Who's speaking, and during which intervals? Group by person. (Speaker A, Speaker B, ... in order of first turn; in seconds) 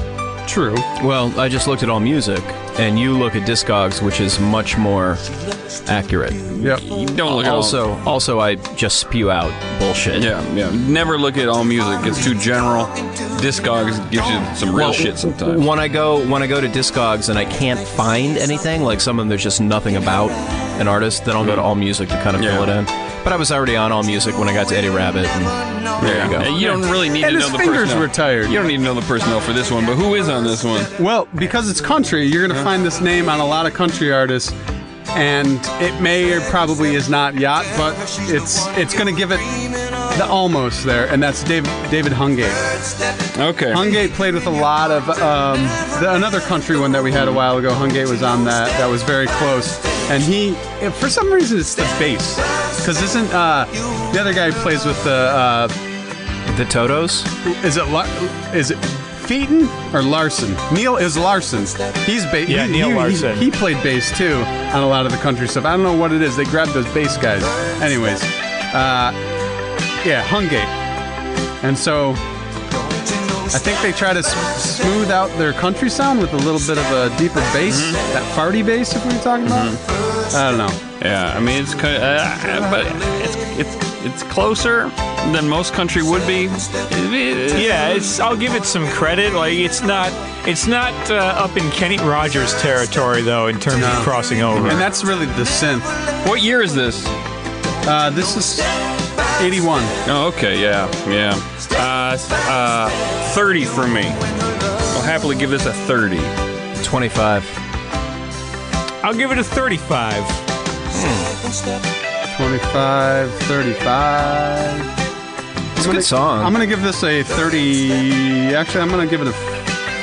Speaker A: 0.4-0.8, 26.6-28.6, 31.0-34.5, 35.1-42.8, 43.7-55.8, 57.4-69.2, 70.0-70.7, 71.6-72.2, 73.5-79.8, 80.3-80.8, 93.8-96.0, 97.8-98.7, 99.4-99.9, 112.3-114.9, 115.8-119.7
Speaker B: 0.9-5.2, 5.8-6.6, 7.2-10.3, 14.7-26.6, 56.5-57.3, 106.8-107.5, 110.9-111.3, 115.8-116.5
Speaker C: 6.5-7.8, 10.1-15.6, 21.4-21.7, 22.4-22.7, 26.0-30.9, 43.3-43.9, 77.7-78.0, 79.5-79.8, 81.0-87.8, 94.5-94.8, 96.2-97.1, 100.0-104.2, 104.9-106.3
Speaker D: 62.5-63.5, 87.5-94.9, 109.0-110.4